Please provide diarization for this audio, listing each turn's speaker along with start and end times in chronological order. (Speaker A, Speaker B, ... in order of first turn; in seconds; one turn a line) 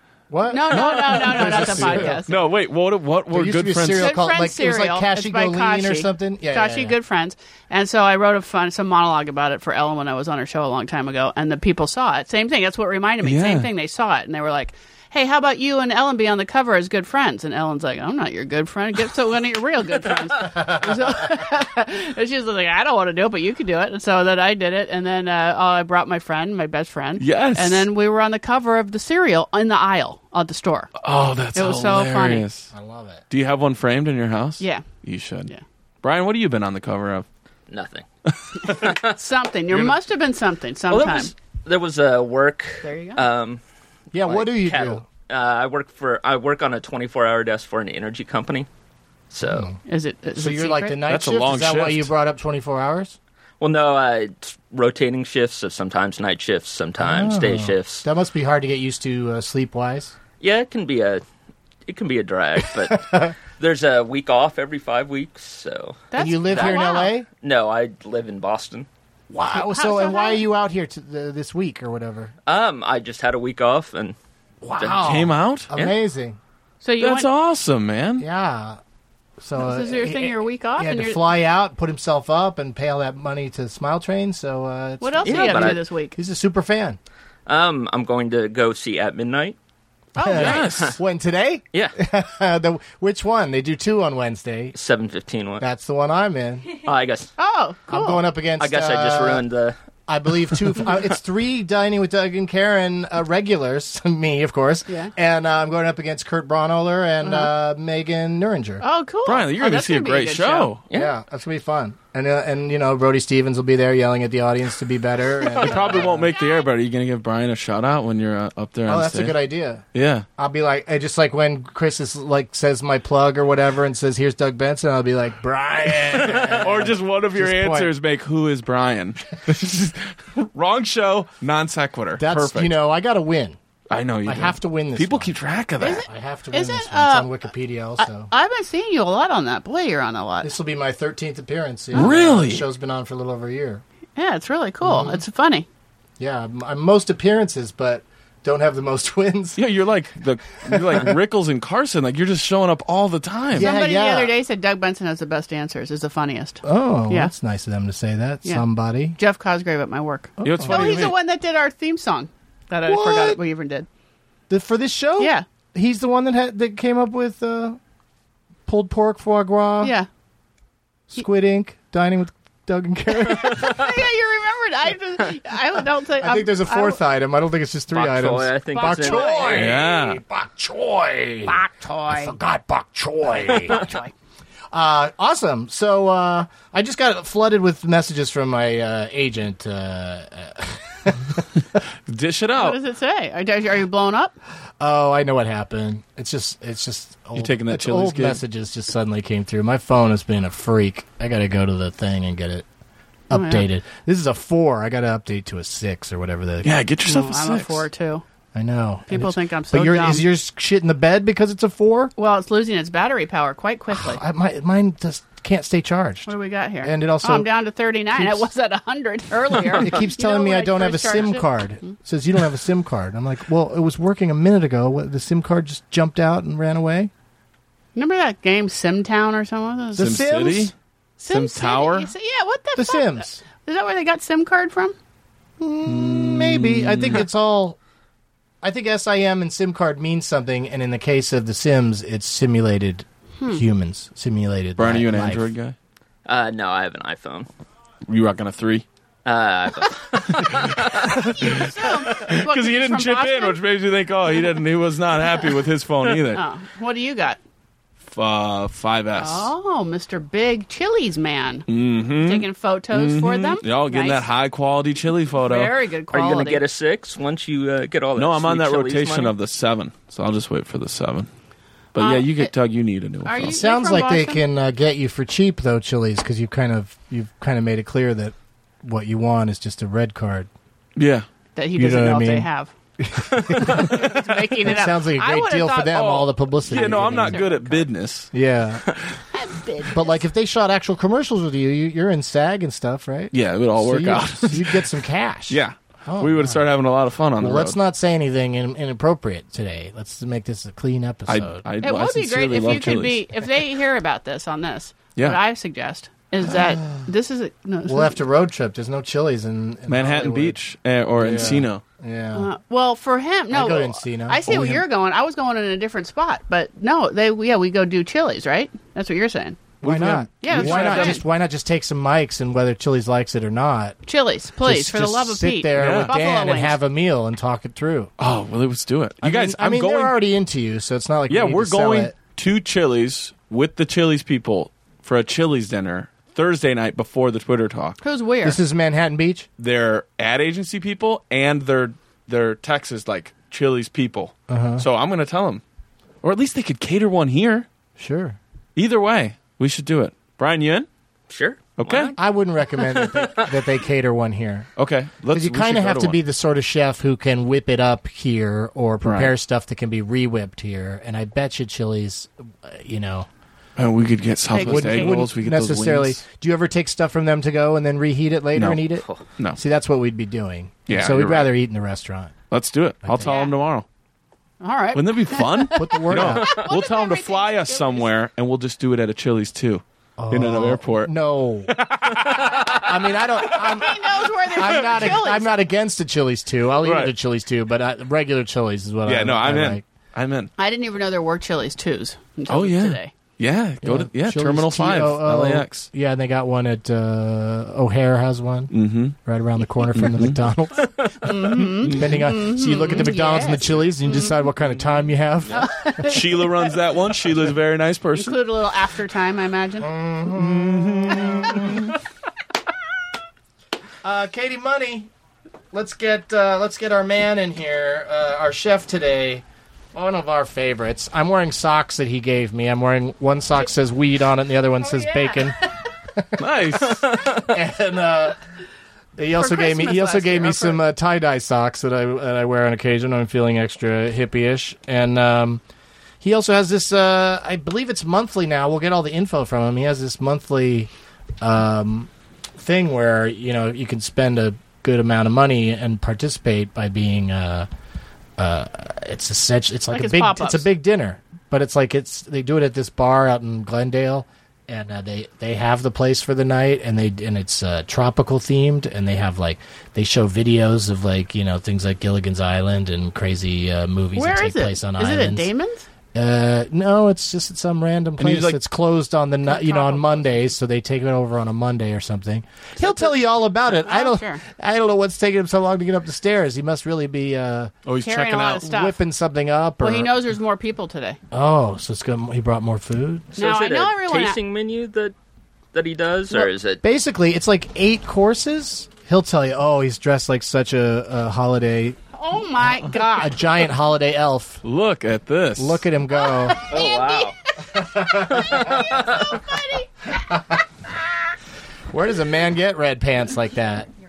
Speaker A: 0.3-2.2
Speaker B: 0.5-2.4
Speaker C: 0.7-4.1
Speaker A: 3.3-7.0
Speaker B: 4.0-30.9
Speaker C: 13.2-13.7
Speaker C: 27.2-27.9
Speaker C: 31.0-32.7
Speaker B: 31.5-32.5
Speaker A: 32.7-33.2
Speaker C: 33.3-35.5
Speaker B: 34.6-34.9
Speaker C: 36.0-37.3
Speaker D: 37.7-38.1
Speaker C: 38.3-38.9
Speaker D: 38.6-39.1
Speaker B: 38.6-41.3
Speaker D: 40.9-43.6
Speaker B: 42.8-43.2
Speaker A: 44.1-45.1
Speaker D: 44.1-48.7
Speaker D: 49.3-49.7
Speaker A: 49.4-49.8
Speaker B: 49.9-51.0
Speaker A: 50.4-53.2
Speaker C: 51.1-52.1
Speaker D: 53.6-58.0
Speaker A: 57.0-60.1
Speaker D: 60.4-61.2
Speaker D: 61.9-68.9
Speaker A: 62.6-63.4
Speaker B: 66.1-67.1
Speaker A: 66.2-67.3
Speaker A: 69.3-72.3
Speaker B: 69.5-70.4
Speaker D: 72.5-74.2
Speaker A: 74.6-76.4
Speaker D: 74.8-75.1
Speaker C: 75.0-75.7
Speaker B: 76.8-77.3
Speaker C: 77.0-78.3
Speaker A: 78.2-78.8
Speaker A: 79.4-87.0
Speaker B: 79.6-81.3
Speaker B: 85.0-86.2
Speaker D: 85.2-85.8
Speaker D: 87.5-89.6
Speaker B: 90.2-90.7
Speaker A: 90.2-94.8
Speaker C: 90.4-91.0
Speaker D: 90.5-91.0
Speaker D: 94.8-95.6
Speaker A: 95.6-96.8
Speaker D: 96.8-97.3
Speaker B: 97.4-98.2
Speaker A: 97.9-99.5
Speaker D: 98.6-99.8
Speaker A: 100.1-108.8
Speaker B: 104.9-105.1
Speaker B: 107.2-107.5
Speaker B: 108.8-110.7
Speaker C: 109.3-110.9
Speaker A: 110.9-116.3
Speaker C: 115.5-119.4
Speaker B: 116.3-116.7
Speaker A: 118.9-119.8
Speaker C: 119.9-120.3
Speaker A: 120.4-127.9
Speaker C: 126.3-132.7
Speaker A: 132.2-133.6
Speaker C: 133.9-136.1
Speaker A: 134.3-135.3
Speaker B: 135.8-137.3
Speaker A: 136.1-138.3
Speaker B: 138.0-140.5
Speaker A: 140.4-143.8
Speaker C: 141.9-142.7
Speaker B: 144.2-145.7
Speaker A: 144.8-145.2
Speaker A: 146.2-149.6
Speaker C: 149.6-153.7
Speaker A: 150.6-151.2
Speaker A: 153.5-154.3
Speaker B: 153.6-157.3
Speaker A: 156.6-159.2
Speaker B: 159.2-163.9
Speaker A: 160.4-160.9
Speaker C: 160.4-161.2
Speaker A: 162.9-163.4
Speaker A: 164.5-167.8
Speaker B: 165.2-165.4
Speaker A: 168.7-169.9
Speaker B: 169.8-170.1
Speaker A: 171.1-173.9
Speaker B: 173.1-177.0
Speaker A: 176.2-183.9
Speaker D: 177.9-179.8
Speaker B: 178.7-179.8
Speaker C: 179.6-180.2
Speaker B: 181.5-182.4
Speaker B: 183.5-184.1
Speaker A: 184.7-191.4
Speaker C: 192.1-192.8
Speaker B: 192.6-194.4
Speaker A: 194.8-202.7
Speaker C: 197.3-198.4
Speaker A: 203.3-206.8
Speaker B: 203.3-203.7
Speaker C: 206.6-207.9
Speaker B: 207.0-208.2
Speaker A: 208.5-212.1
Speaker B: 209.1-210.3
Speaker B: 212.2-214.2
Speaker A: 213.9-217.5
Speaker B: 216.3-221.9
Speaker A: 218.1-218.5
Speaker A: 219.7-227.1
Speaker B: 227.9-230.2
Speaker C: 230.0-230.7
Speaker A: 230.0-230.7
Speaker B: 231.2-235.0
Speaker C: 231.3-232.1
Speaker A: 232.8-233.4
Speaker A: 235.6-237.8
Speaker C: 235.8-237.2
Speaker A: 238.6-245.5
Speaker B: 243.4-243.7
Speaker C: 244.8-245.8
Speaker D: 246.3-247.5
Speaker C: 248.1-248.8
Speaker D: 249.2-251.3
Speaker C: 250.3-256.4
Speaker B: 251.4-253.6
Speaker B: 256.3-257.4
Speaker C: 258.0-259.5
Speaker B: 259.2-264.3
Speaker C: 261.7-265.8
Speaker B: 265.4-266.6
Speaker D: 266.1-269.4
Speaker C: 268.2-271.3
Speaker C: 271.9-273.6
Speaker B: 272.0-272.5
Speaker B: 273.2-274.4
Speaker A: 273.5-280.5
Speaker C: 281.0-281.3
Speaker B: 281.6-282.7
Speaker A: 281.8-282.5
Speaker A: 283.0-287.5
Speaker B: 283.6-287.9
Speaker C: 285.9-288.3
Speaker A: 288.3-288.9
Speaker B: 289.3-290.2
Speaker A: 289.9-296.7
Speaker C: 293.3-294.9
Speaker C: 295.5-297.8
Speaker A: 297.4-301.6
Speaker C: 301.3-303.3
Speaker B: 301.8-308.2
Speaker C: 305.2-305.4
Speaker A: 307.9-310.6
Speaker C: 309.9-311.8
Speaker A: 311.2-312.5
Speaker B: 312.4-319.6
Speaker A: 313.5-314.8
Speaker C: 319.8-321.2
Speaker A: 319.8-324.0
Speaker B: 320.4-321.2
Speaker B: 324.1-326.8
Speaker A: 324.6-328.1
Speaker C: 325.8-326.1
Speaker C: 328.2-330.2
Speaker A: 329.2-332.1
Speaker C: 331.3-338.0
Speaker B: 338.0-338.6
Speaker A: 338.4-339.5
Speaker C: 339.6-345.6
Speaker A: 344.5-344.9
Speaker C: 346.2-347.7
Speaker A: 348.0-348.4
Speaker C: 348.8-350.9
Speaker D: 351.3-352.2
Speaker C: 351.8-352.1
Speaker A: 352.2-354.7
Speaker D: 352.8-353.7
Speaker C: 354.8-356.2
Speaker A: 355.3-363.3
Speaker C: 359.0-359.3
Speaker C: 363.8-366.2
Speaker B: 364.5-365.2
Speaker A: 364.6-372.4
Speaker C: 368.6-369.6
Speaker D: 369.0-369.3
Speaker C: 370.9-371.5
Speaker C: 372.5-373.9
Speaker A: 373.0-373.3
Speaker B: 373.2-373.6
Speaker B: 374.6-378.1
Speaker C: 374.9-381.1
Speaker A: 375.8-376.6
Speaker A: 380.2-389.8
Speaker C: 381.7-383.8
Speaker B: 383.5-385.5
Speaker C: 386.8-387.1
Speaker C: 389.1-390.5
Speaker B: 390.6-393.1
Speaker C: 392.5-395.9
Speaker A: 393.8-406.0
Speaker C: 398.7-399.2
Speaker C: 399.9-400.4
Speaker B: 401.2-404.4
Speaker B: 405.5-406.7
Speaker C: 406.0-408.4
Speaker B: 408.1-409.9
Speaker A: 409.8-411.9
Speaker C: 410.4-412.0
Speaker A: 414.0-415.1
Speaker A: 415.7-425.6
Speaker B: 424.8-425.4
Speaker A: 426.1-428.4
Speaker C: 426.4-427.4
Speaker A: 429.2-435.6
Speaker B: 429.3-430.8
Speaker A: 436.2-440.9
Speaker A: 441.4-447.7
Speaker A: 448.4-465.5
Speaker B: 449.9-450.7
Speaker B: 464.1-465.9
Speaker A: 466.1-477.7
Speaker C: 468.2-468.6
Speaker B: 469.5-470.5
Speaker B: 472.8-473.1
Speaker B: 473.7-474.4
Speaker C: 477.9-478.7
Speaker B: 478.0-479.0
Speaker A: 478.6-480.1
Speaker B: 479.8-481.2
Speaker A: 481.3-483.4
Speaker D: 483.4-485.1
Speaker B: 483.4-484.4
Speaker D: 485.7-486.8
Speaker A: 486.8-492.0
Speaker B: 492.1-493.4
Speaker A: 493.0-494.6
Speaker C: 494.6-495.8
Speaker A: 495.6-496.6
Speaker B: 496.1-500.2
Speaker D: 496.7-497.4
Speaker A: 497.7-498.8
Speaker D: 498.2-499.4
Speaker A: 501.9-503.9